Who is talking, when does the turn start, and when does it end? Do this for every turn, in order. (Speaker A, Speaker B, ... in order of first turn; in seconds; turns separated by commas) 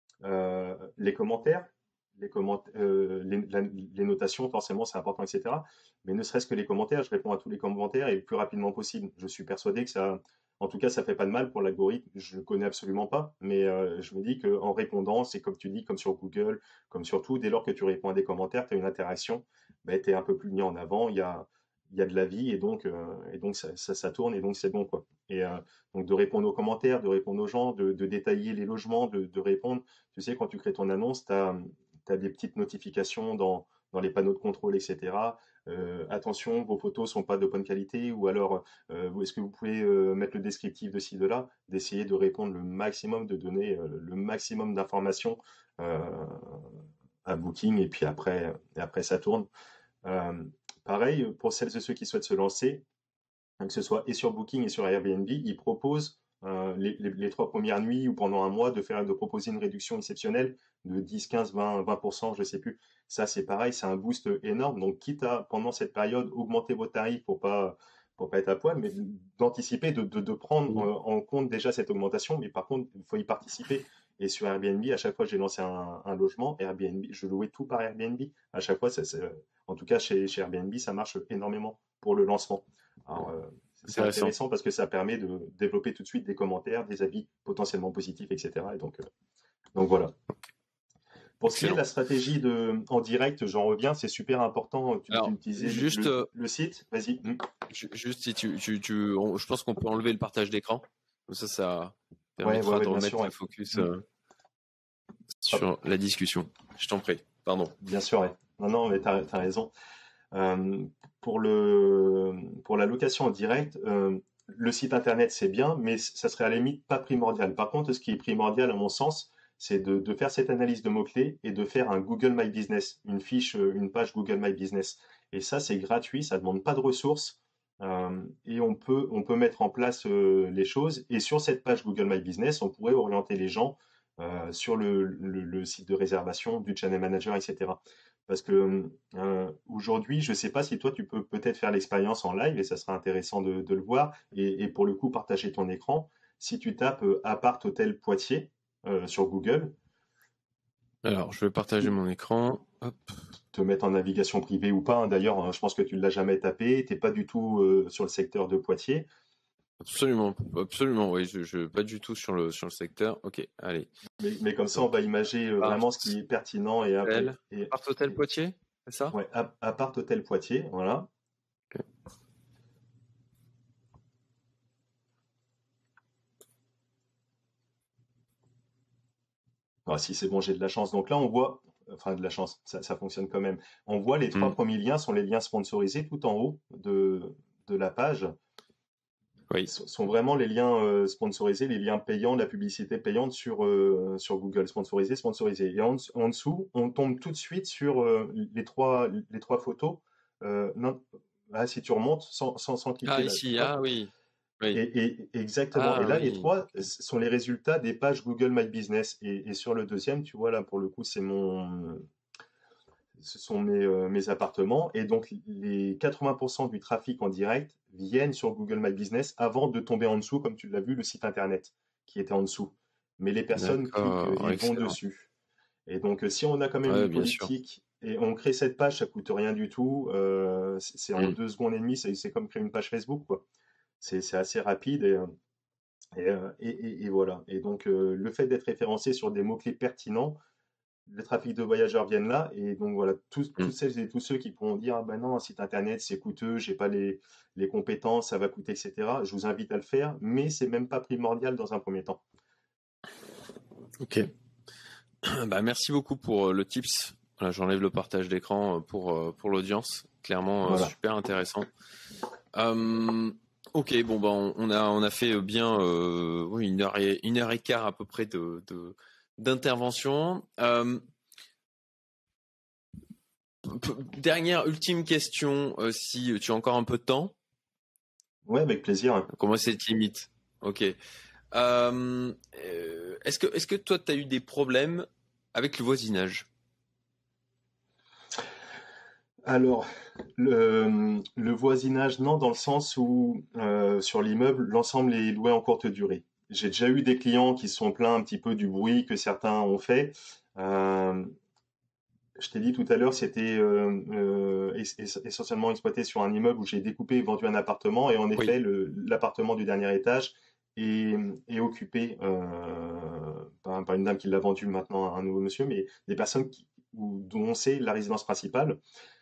Speaker A: 0.2-46.7, Speaker A: 47.2-49.5, Speaker A: 50.0-52.8, Speaker A: 53.6-89.0, Speaker B: 83.9-84.3, Speaker A: 89.7-90.1, Speaker A: 91.4-97.4, Speaker B: 91.5-91.8, Speaker B: 95.1-96.3, Speaker B: 97.7-104.0, Speaker A: 102.4-103.9, Speaker B: 105.4-107.7, Speaker A: 107.8-109.7, Speaker A: 110.3-149.7, Speaker B: 151.0-153.1, Speaker A: 153.5-159.1, Speaker B: 159.8-163.9, Speaker A: 164.2-167.8, Speaker B: 165.6-165.9, Speaker B: 167.0-169.2, Speaker A: 169.1-171.1, Speaker A: 179.8-188.3, Speaker A: 189.7-203.7, Speaker B: 203.0-204.8, Speaker A: 204.7-212.0, Speaker B: 205.7-206.5, Speaker A: 213.2-225.3, Speaker B: 223.6-224.9, Speaker A: 225.9-233.4, Speaker B: 226.9-227.5, Speaker A: 234.0-235.3, Speaker A: 236.1-240.4, Speaker A: 241.1-252.2, Speaker B: 254.0-254.3, Speaker B: 255.2-261.7, Speaker A: 260.6-260.9, Speaker B: 262.5-271.0, Speaker B: 273.6-277.3, Speaker A: 278.4-279.3, Speaker B: 279.3-280.9, Speaker B: 281.5-286.5, Speaker A: 289.4-301.3, Speaker A: 302.4-318.8